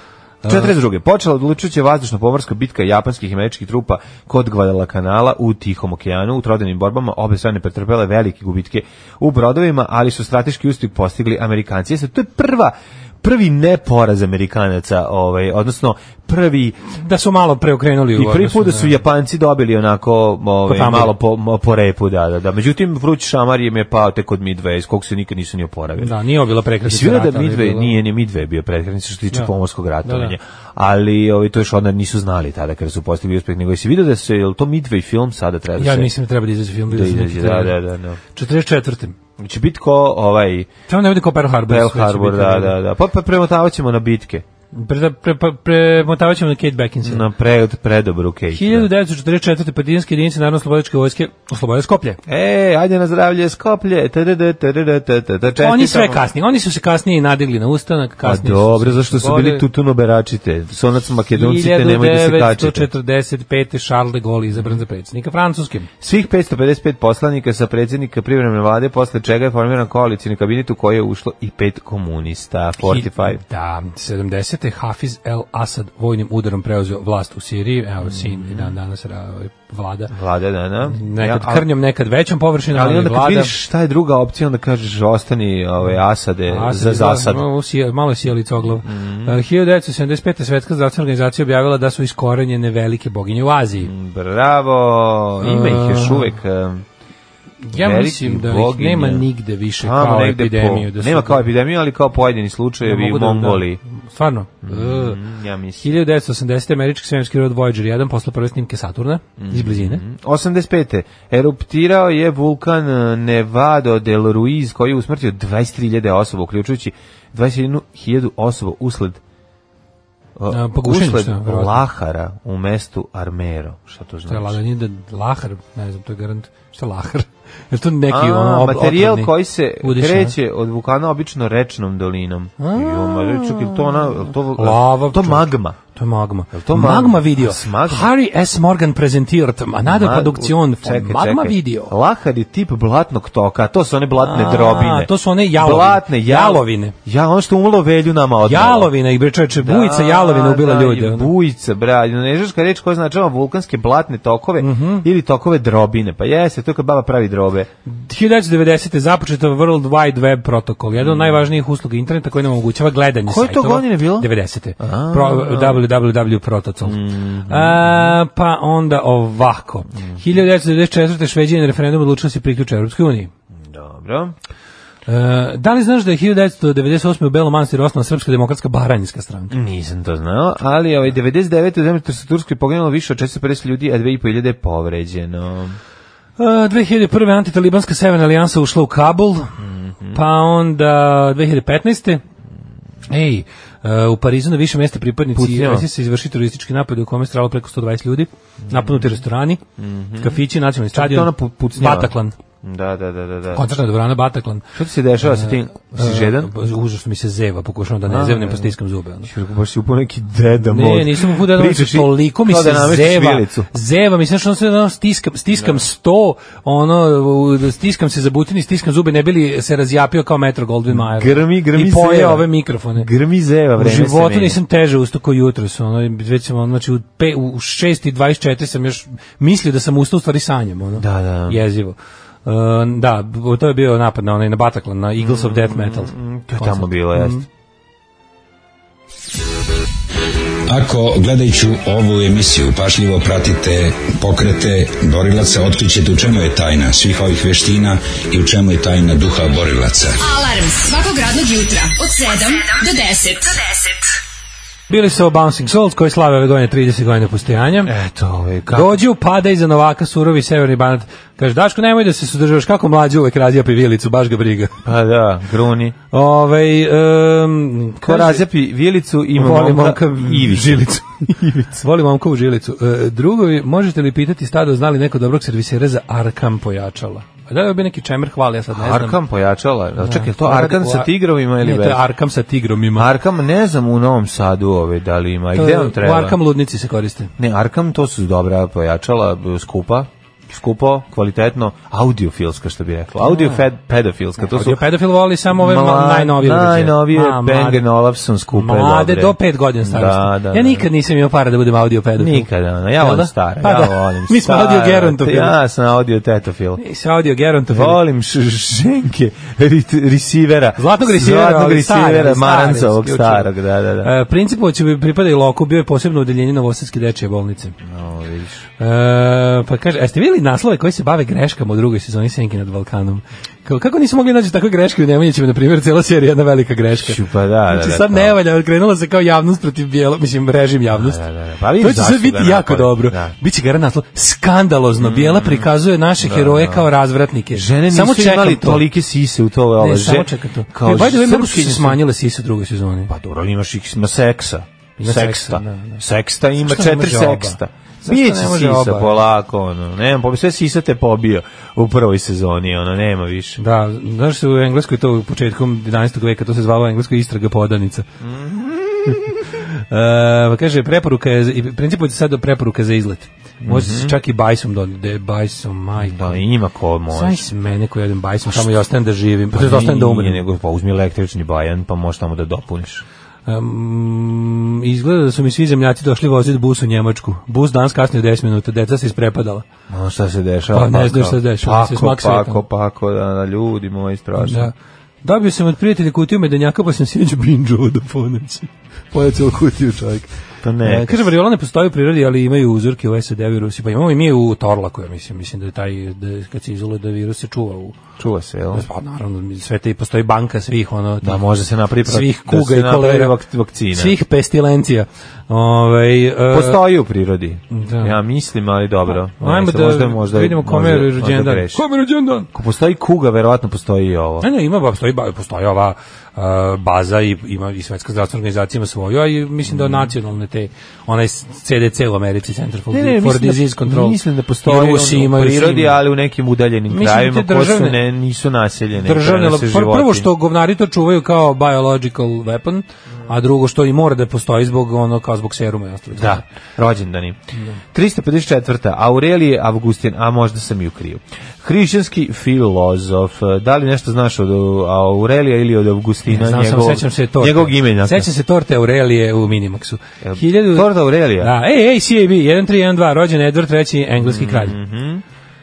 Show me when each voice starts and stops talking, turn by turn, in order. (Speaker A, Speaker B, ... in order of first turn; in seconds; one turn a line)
Speaker A: 0.4-0.7
Speaker B: 0.4-16.8
Speaker A: 16.9-19.0
Speaker B: 18.1-26.1
Speaker A: 20.6-21.1
Speaker A: 26.0-28.0
Speaker B: 26.8-36.1
Speaker A: 30.0-30.3
Speaker A: 35.8-37.8
Speaker B: 36.9-38.2
Speaker A: 38.3-39.1
Speaker B: 39.4-40.7
Speaker A: 40.9-42.7
Speaker B: 41.6-44.4
Speaker A: 44.7-47.3
Speaker B: 47.0-48.9
Speaker A: 48.5-52.2
Speaker B: 52.3-56.2
Speaker A: 55.6-59.6
Speaker B: 58.2-62.9
Speaker A: 61.3-65.9
Speaker B: 66.0-73.4
Speaker A: 72.8-80.1
Speaker B: 78.0-78.7
Speaker B: 80.1-81.7
Speaker A: 80.9-83.5
Speaker B: 82.7-87.4
Speaker A: 86.5-93.9
Speaker B: 88.8-89.4
Speaker B: 93.8-96.8
Speaker A: 95.4-96.3
Speaker A: 97.6-101.5
Speaker B: 97.7-99.3
Speaker B: 99.8-103.8
Speaker A: 102.8-105.2
Speaker B: 104.6-105.9
Speaker A: 105.8-110.0
Speaker B: 109.4-119.2
Speaker B: 120.3-124.6
Speaker A: 120.5-121.8
Speaker A: 124.3-130.3
Speaker B: 128.1-135.8
Speaker A: 132.6-141.9
Speaker B: 136.5-138.1
Speaker B: 139.8-148.9
Speaker A: 144.2-146.9
Speaker A: 148.4-151.3
Speaker B: 149.6-157.7
Speaker A: 154.6-155.1
Speaker A: 157.8-173.3
Speaker B: 161.0-161.4
Speaker B: 163.2-165.8
Speaker B: 166.8-168.2
Speaker B: 173.7-174.3
Speaker A: 175.1-179.5
Speaker B: 179.5-185.8
Speaker A: 186.4-189.5
Speaker B: 189.6-190.2
Speaker A: 190.1-192.2
Speaker A: 193.1-199.6
Speaker B: 195.3-195.9
Speaker B: 198.7-199.1
Speaker B: 199.8-200.4
Speaker A: 200.2-202.3
Speaker B: 200.9-203.6
Speaker A: 203.5-204.6
Speaker B: 204.7-206.5
Speaker A: 205.2-209.3
Speaker B: 208.1-208.7
Speaker B: 209.2-213.7
Speaker A: 210.7-223.1
Speaker B: 215.5-215.8
Speaker B: 220.9-224.6
Speaker A: 223.8-237.4
Speaker B: 231.0-231.6
Speaker B: 235.2-237.4
Speaker C: 240.7-250.2
Speaker D: 250.2-253.9
Speaker A: 254.9-257.9
Speaker B: 257.8-259.0
Speaker A: 258.7-264.8
Speaker B: 264.8-265.9
Speaker A: 266.1-268.4
Speaker B: 268.0-270.9
Speaker A: 269.3-279.2
Speaker B: 278.7-282.0
Speaker A: 280.0-283.1
Speaker B: 282.9-286.4
Speaker A: 285.5-287.3
Speaker B: 287.4-294.8
Speaker A: 293.2-293.6
Speaker A: 294.4-297.8
Speaker B: 295.5-300.9
Speaker A: 298.5-305.6
Speaker B: 302.2-306.8
Speaker A: 306.8-308.0
Speaker B: 307.7-314.1
Speaker A: 310.8-313.5
Speaker A: 314.0-317.8
Speaker B: 317.8-318.6
Speaker A: 318.8-331.2
Speaker B: 327.0-328.4
Speaker B: 330.9-333.3
Speaker A: 331.8-338.8
Speaker B: 335.0-336.9
Speaker B: 337.5-342.0
Speaker A: 339.8-343.1
Speaker B: 343.1-353.6
Speaker A: 345.0-346.0
Speaker A: 346.6-349.2
Speaker A: 353.6-358.1
Speaker B: 358.2-359.3
Speaker A: 359.7-366.4
Speaker B: 363.6-364.1
Speaker B: 366.0-367.5
Speaker A: 367.1-370.4
Speaker B: 369.5-373.0
Speaker A: 373.5-379.6
Speaker B: 379.9-384.7
Speaker A: 380.7-382.6
Speaker A: 384.4-390.3
Speaker B: 390.6-391.3
Speaker A: 390.8-398.0
Speaker B: 398.2-398.8
Speaker A: 398.7-401.4
Speaker B: 401.2-404.1
Speaker A: 402.0-403.4
Speaker A: 403.9-406.8
Speaker B: 406.5-411.8
Speaker A: 407.7-408.1
Speaker A: 409.4-412.5
Speaker B: 412.5-414.5
Speaker A: 414.4-426.0
Speaker B: 419.7-420.1
Speaker B: 422.9-430.3
Speaker A: 426.9-428.0
Speaker A: 429.0-436.4
Speaker B: 436.1-437.4
Speaker B: 437.9-448.3
Speaker A: 446.3-454.8
Speaker B: 450.2-451.5
Speaker B: 454.2-455.2